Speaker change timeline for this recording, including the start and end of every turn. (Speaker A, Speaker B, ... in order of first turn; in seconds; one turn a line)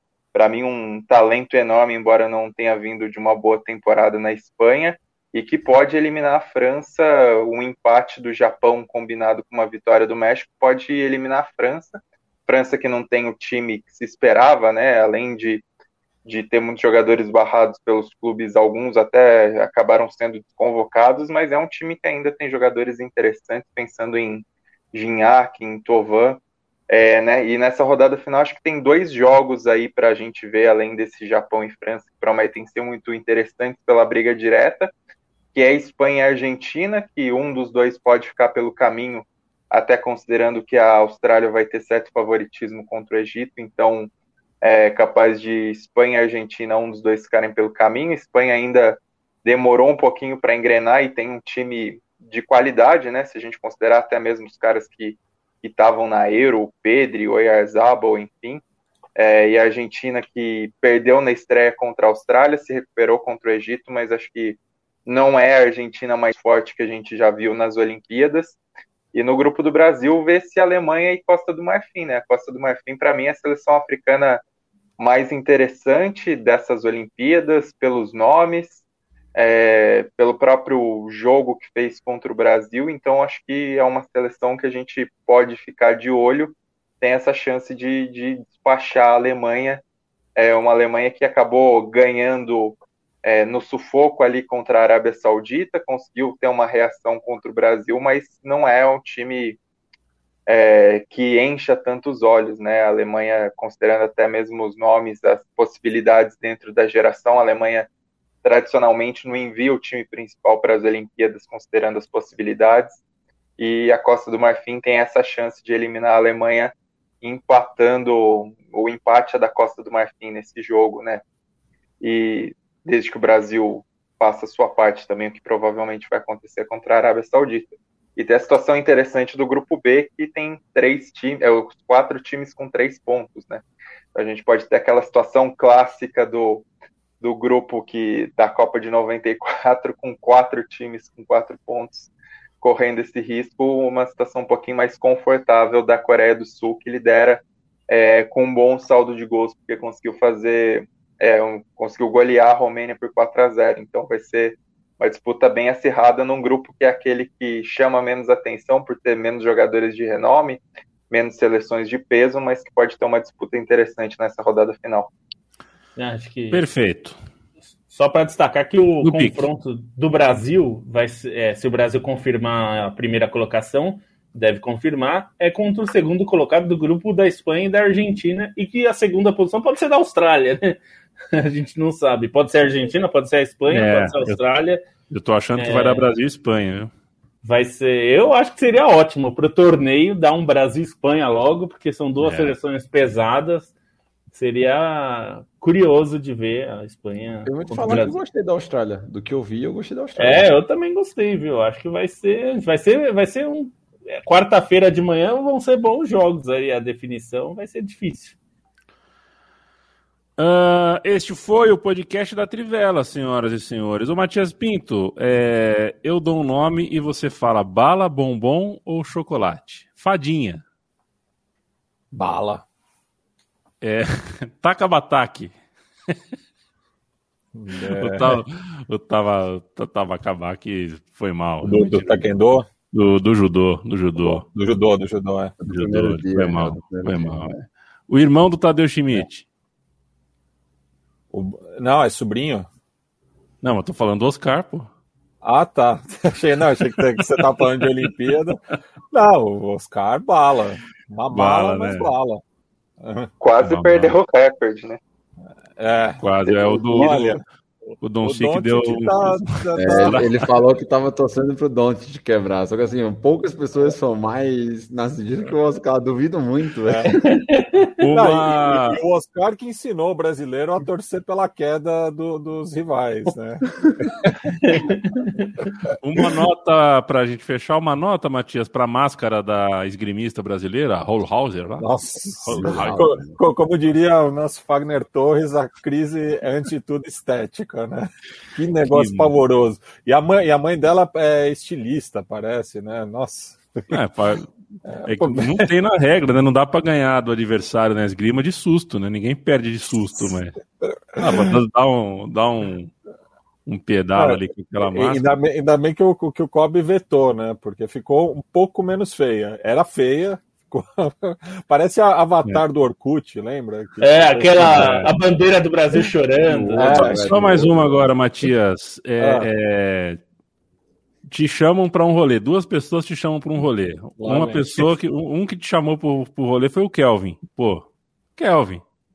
Speaker A: 0.3-15.6
Speaker A: 16.2-34.9
Speaker A: 35.5-44.1
Speaker A: 44.6-58.6
Speaker A: 59.1-68.6
Speaker A: 69.1-74.4
Speaker A: 75.0-78.8
Speaker A: 79.3-89.8
Speaker A: 90.3-99.6
Speaker A: 100.5-107.9
Speaker A: 108.4-113.0
Speaker A: 113.6-121.2
Speaker A: 122.0-133.6
Speaker A: 134.1-136.6
Speaker A: 137.2-142.1
Speaker A: 142.6-165.1
Speaker B: 165.9-166.6
Speaker C: 166.5-167.2
Speaker B: 167.9-180.8
Speaker C: 169.0-169.5
Speaker B: 181.3-184.8
Speaker C: 183.7-184.4
Speaker C: 185.1-186.9
Speaker B: 185.6-186.0
Speaker B: 187.4-193.7
Speaker C: 192.2-192.6
Speaker B: 194.3-198.2
Speaker D: 197.4-200.5
Speaker B: 200.2-208.3
Speaker C: 210.4-220.6
Speaker E: 222.1-222.6
Speaker C: 223.8-225.5
Speaker E: 227.5-228.4
Speaker C: 227.9-232.3
Speaker E: 231.6-232.7
Speaker C: 232.9-234.4
Speaker E: 234.2-235.5
Speaker D: 235.6-237.6
Speaker C: 235.6-237.6
Speaker C: 238.1-239.4
Speaker E: 241.3-242.7
Speaker C: 243.6-244.9
Speaker E: 245.4-248.6
Speaker C: 246.8-248.0
Speaker E: 249.1-252.4
Speaker C: 251.3-252.1
Speaker E: 253.0-253.3
Speaker A: 253.4-255.0
Speaker C: 253.6-254.1
Speaker E: 255.8-257.4
Speaker C: 256.2-257.4
Speaker C: 258.0-260.4
Speaker E: 258.2-260.2
Speaker D: 259.8-267.2
Speaker E: 266.9-267.1
Speaker B: 267.2-268.0
Speaker C: 268.0-269.0
Speaker E: 268.1-274.8
Speaker D: 273.7-274.1
Speaker B: 274.6-275.6
Speaker C: 276.0-283.1
Speaker E: 281.8-293.9
Speaker D: 282.5-283.4
Speaker C: 288.9-289.3
Speaker C: 293.9-294.5
Speaker E: 294.8-295.7
Speaker C: 295.0-300.6
Speaker E: 301.1-301.6
Speaker C: 301.1-302.9
Speaker C: 303.6-305.3
Speaker E: 304.2-314.9
Speaker B: 314.0-316.9
Speaker C: 314.6-315.1
Speaker D: 316.5-318.1
Speaker E: 316.7-317.4
Speaker C: 316.8-320.2
Speaker E: 319.2-319.5
Speaker C: 321.3-328.8
Speaker E: 324.2-324.9